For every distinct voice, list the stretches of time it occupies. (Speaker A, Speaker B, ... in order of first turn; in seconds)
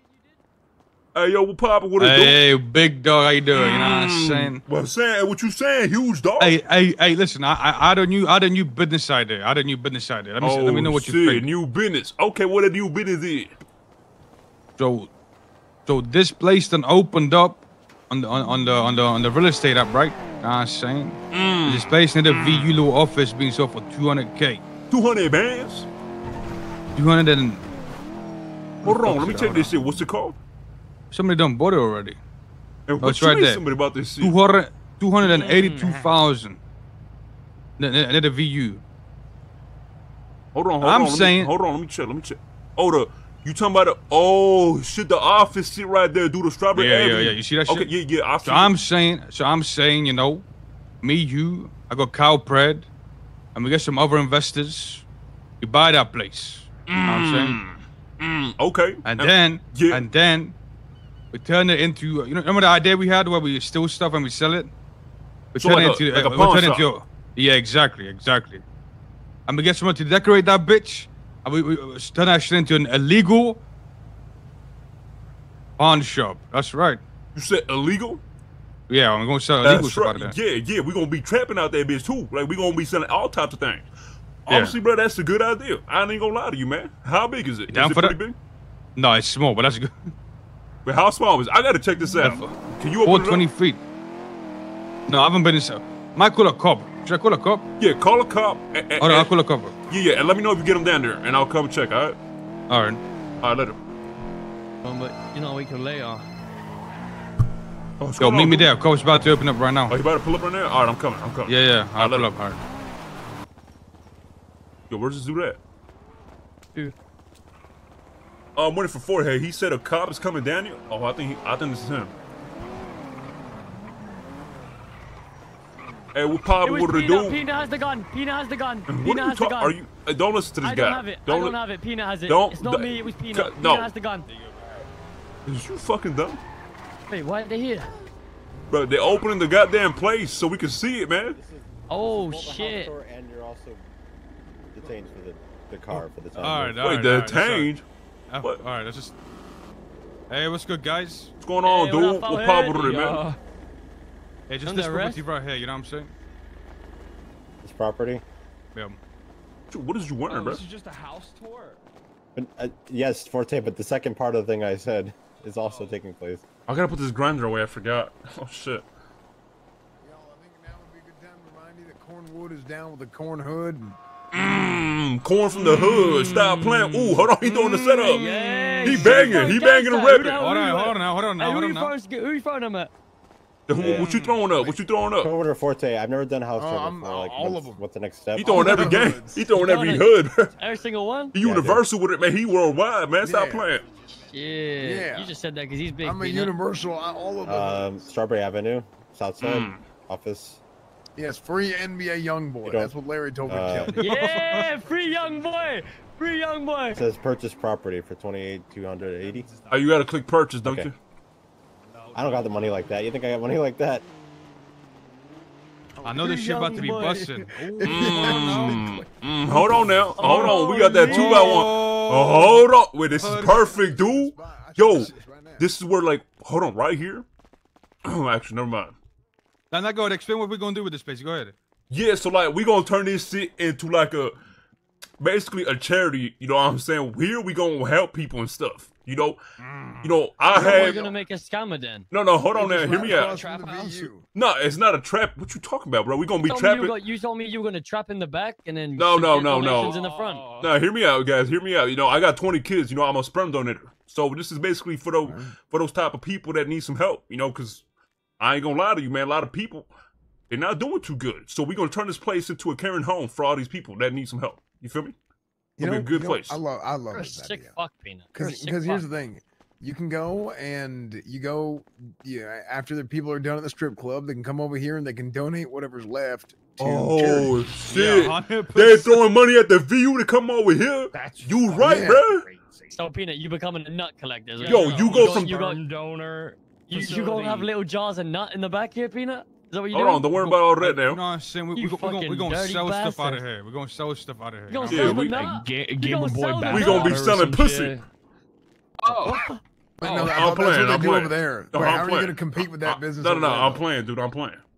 Speaker A: 1.1-2.4, 3.5-6.6, 10.4-13.5, 21.3-22.8, 24.9-25.9, 28.8-30.4, 32.9-34.3, 40.5-48.7, 56.9-60.0, 65.6-66.9, 77.3-78.2, 79.6-83.8, 84.4-88.4, 90.8-93.5, 97.8-99.3, 99.9-102.2, 103.4-103.8, 108.0-108.7, 109.9-112.3, 114.9-115.6, 118.5-122.1, 126.1-127.4, 128.9-131.6, 132.3-133.9, 135.4-136.4, 138.7-141.4, 146.8-147.8, 151.4-153.2, 159.7-160.6, 166.7-168.8, 174.3-178.2, 178.8-180.4, 183.7-185.3, 188.3-190.5, 191.3-193.8, 199.4-199.8, 209.7-210.9, 217.8-227.2, 228.0-228.9, 231.9-234.3, 235.2-239.4, 240.0-241.0, 242.1-243.4, 244.3-246.9, 248.9-250.0, 250.6-257.8, 258.4-259.9, 260.5-265.2, 265.8-266.6, 276.8-282.4, 284.6-285.6, 289.9-291.2, 294.9-295.4, 296.7-297.9, 300.0-304.6
Speaker B: 2.0-4.6, 6.4-11.5, 14.8-15.1, 15.8-24.7, 26.9-27.6, 28.8-29.9, 31.1-32.2, 33.0-33.6, 34.2-36.6, 37.8-38.8, 40.8-41.5, 46.7-47.9, 48.4-50.5, 51.0-52.9, 53.5-55.1, 55.6-57.6, 59.0-60.6, 61.3-64.7, 65.5-68.6, 69.5-73.6, 75.8-77.0, 78.9-80.4, 84.5-84.8, 87.7-88.2, 89.0-90.1, 92.2-92.5, 93.0-93.8, 95.1-97.7, 99.0-99.8, 102.7-103.0, 108.2-110.0, 111.5-112.6, 134.3-134.8, 145.9-147.7, 148.3-149.2, 150.3-151.3, 154.5-156.1, 175.6-177.2, 177.9-179.6, 180.3-181.9, 183.8-184.5, 203.9-204.7, 216.0-218.8, 220.2-223.7, 224.8-225.2, 229.7-231.5, 239.7-240.1, 277.9-279.2, 290.3-295.1
Speaker C: 35.2-36.1, 104.8-106.3, 126.6-129.8, 130.6-134.3, 137.1-137.9, 141.9-142.9, 151.6-153.2, 154.7-155.2, 177.6-182.9, 189.5-191.3, 194.2-196.6, 203.9-207.0, 216.2-217.4, 220.2-221.7, 240.5-242.1, 246.4-250.5, 267.1-269.0, 282.9-285.8, 286.9-290.3, 291.7-293.4, 294.7-298.0, 299.2-299.6
Speaker D: 141.3-143.8, 144.7-146.8, 157.6-158.2, 162.3-166.4, 183.7-184.1, 185.2-188.8, 191.4-191.8, 197.4-200.6, 202.6-202.9, 203.5-204.0, 206.9-209.5, 210.6-210.9, 212.1-214.1
Speaker E: 152.9-153.4, 160.3-161.8, 165.7-166.0, 204.5-205.8, 209.1-209.9, 211.9-212.8, 218.2-219.0, 242.8-244.1, 249.5-250.7, 281.1-283.0, 284.6-287.7, 295.0-297.7, 299.0-299.5
Speaker F: 170.0-174.0, 186.6-187.8, 188.4-189.4, 193.2-193.7, 194.8-195.3, 196.0-197.9, 201.2-204.1, 215.9-217.0, 217.8-218.8, 219.5-219.8, 223.5-225.7, 240.5-241.2, 242.5-244.3, 255.2-255.5, 265.8-267.8, 268.3-277.5, 281.8-282.2, 300.0-303.8